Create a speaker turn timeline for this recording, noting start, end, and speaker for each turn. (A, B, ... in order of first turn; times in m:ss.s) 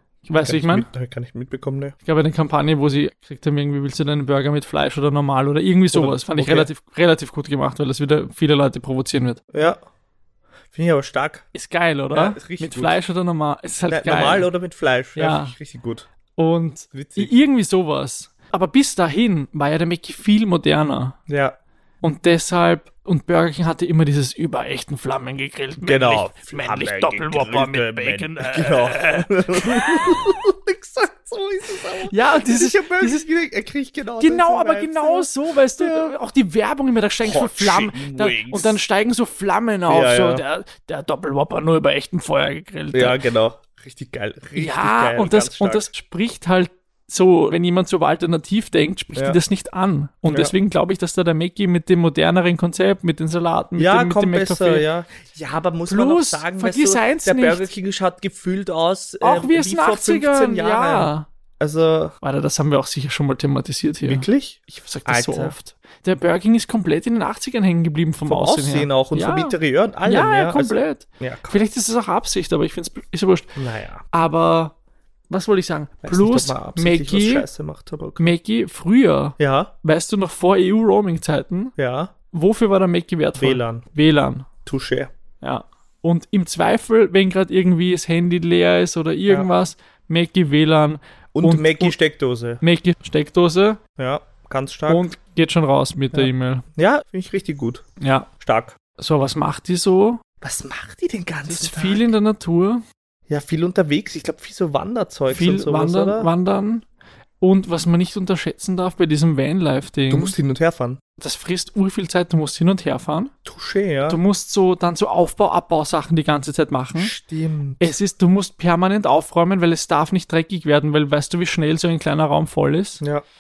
0:00.2-0:00.9 A
0:00.4-0:02.0 B
0:02.0-0:09.4 A
0:05.9-0:06.7 B
0:09.5-0:09.8 B
0:10.7-0:11.5 B
0:11.5-0:14.5 A
0:12.1-0:13.0 B
0:13.9-0:16.1 B
0:15.2-0:15.6 A
0:16.4-0:21.2 A
0:16.9-0:17.3 B
0:21.3-0:21.6 B
0:22.0-0:30.3 A
0:25.8-0:36.1 B
0:32.0-0:33.3 A
0:34.2-0:43.2 A
0:37.2-0:38.8 B
0:39.9-0:40.4 B
0:42.9-0:45.9 B
0:44.6-0:54.8 A
0:50.3-0:50.5 B
0:53.8-1:02.2 B
0:55.9-0:57.7 A
0:59.2-1:01.3 A
1:02.2-1:13.5 A
1:04.1-1:05.6 B
1:08.3-1:11.6 B
1:13.6-1:14.0 B
1:14.1-1:14.7 A
1:15.3-1:17.5 A
1:16.0-1:18.3 B
1:18.2-1:21.7 A
1:19.4-1:19.7 B
1:21.8-1:22.1 B
1:22.3-1:24.5 A
1:23.4-1:23.8 B
1:24.6-1:25.1 B
1:25.4-1:32.0 A
1:31.4-1:32.6 B
1:32.6-1:33.8 A
1:34.0-1:35.0 B
1:34.9-1:36.6 A
1:36.1-1:37.8 B
1:38.0-1:38.3 A
1:38.4-1:38.8 B
1:39.0-1:40.2 A
1:40.4-1:42.1 B
1:41.5-1:42.8 A
1:43.3-1:46.3 B
1:45.3-1:46.8 A
1:47.4-1:50.4 A
1:50.1-1:51.0 B
1:51.2-1:53.3 A
1:53.4-1:54.2 B
1:54.1-1:57.1 A
1:57.0-1:58.0 B
1:57.8-2:03.0 A